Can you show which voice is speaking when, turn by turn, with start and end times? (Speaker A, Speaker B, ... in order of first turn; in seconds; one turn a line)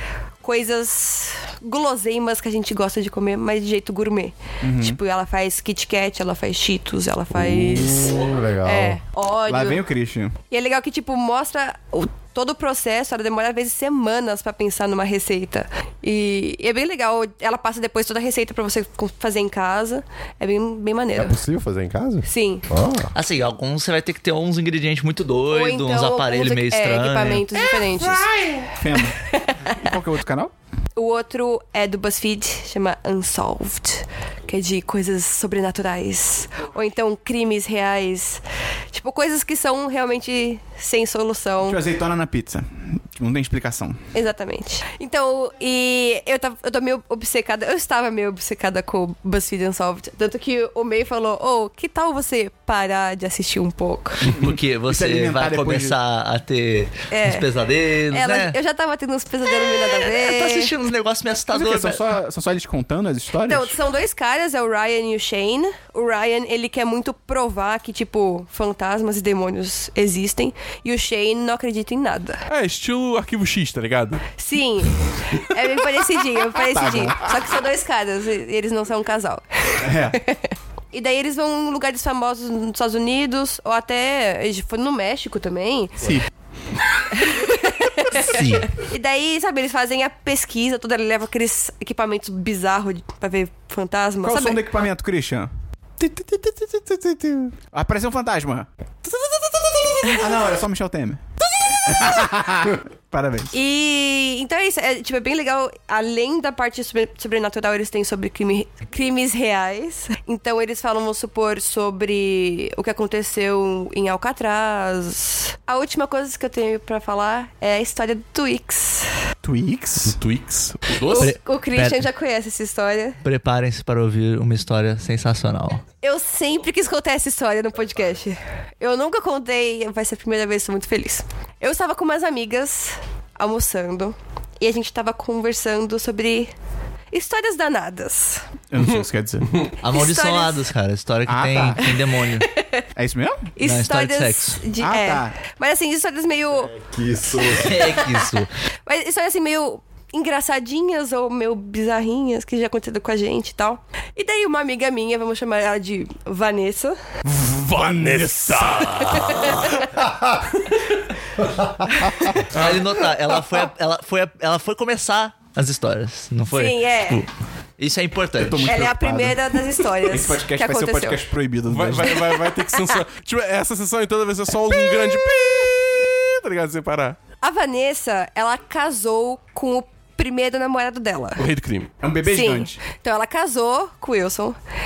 Speaker A: 0.4-9.8
Speaker B: 4.6-5.0
Speaker C: 7.3-9.0
Speaker B: 9.4-10.3
Speaker A: 10.5-21.4
Speaker C: 21.1-23.1
Speaker A: 22.2-22.6
Speaker D: 23.1-27.4
Speaker A: 25.5-28.2
Speaker B: 27.6-30.5
Speaker A: 28.9-29.9
Speaker A: 30.9-41.8
Speaker B: 41.6-44.0
Speaker A: 44.1-54.3
Speaker D: 54.3-58.6
Speaker B: 54.3-56.0
Speaker A: 57.1-57.5
Speaker A: 58.1-60.7
Speaker D: 59.8-62.0
Speaker B: 61.5-63.8
Speaker A: 63.5-72.4
Speaker E: 72.5-74.2
Speaker A: 74.4-86.1
Speaker B: 76.5-77.5
Speaker B: 79.8-80.2
Speaker B: 86.0-86.3
Speaker A: 87.1-94.6
Speaker D: 88.1-88.7
Speaker B: 94.2-95.5
Speaker B: 96.0-97.2
Speaker B: 97.7-99.2
Speaker B: 99.9-101.2
Speaker B: 101.8-103.5
Speaker A: 103.5-119.1
Speaker B: 119.4-120.2
Speaker E: 120.0-121.3
Speaker A: 121.0-123.2
Speaker D: 121.1-122.0
Speaker D: 123.2-125.8
Speaker A: 126.0-136.5
Speaker A: 137.1-138.4
Speaker B: 138.7-139.5
Speaker D: 139.8-142.5
Speaker A: 139.8-140.6
Speaker B: 141.3-141.9
Speaker A: 141.8-142.8
Speaker B: 142.9-143.5
Speaker A: 143.6-146.7
Speaker D: 143.6-144.6
Speaker B: 144.8-145.4
Speaker C: 146.6-148.0
Speaker D: 147.5-148.5
Speaker A: 147.8-157.0
Speaker B: 157.2-159.3
Speaker E: 157.7-159.7
Speaker A: 159.1-159.5
Speaker A: 162.1-162.3
Speaker E: 162.5-162.9
Speaker D: 162.5-167.3
Speaker A: 166.5-167.2
Speaker D: 167.8-168.7
Speaker B: 168.4-172.4
Speaker A: 168.7-171.2
Speaker E: 171.7-177.2
Speaker A: 172.1-172.9
Speaker A: 174.7-175.3
Speaker A: 177.4-181.4
Speaker E: 181.4-181.9
Speaker B: 182.0-182.8
Speaker A: 182.2-184.6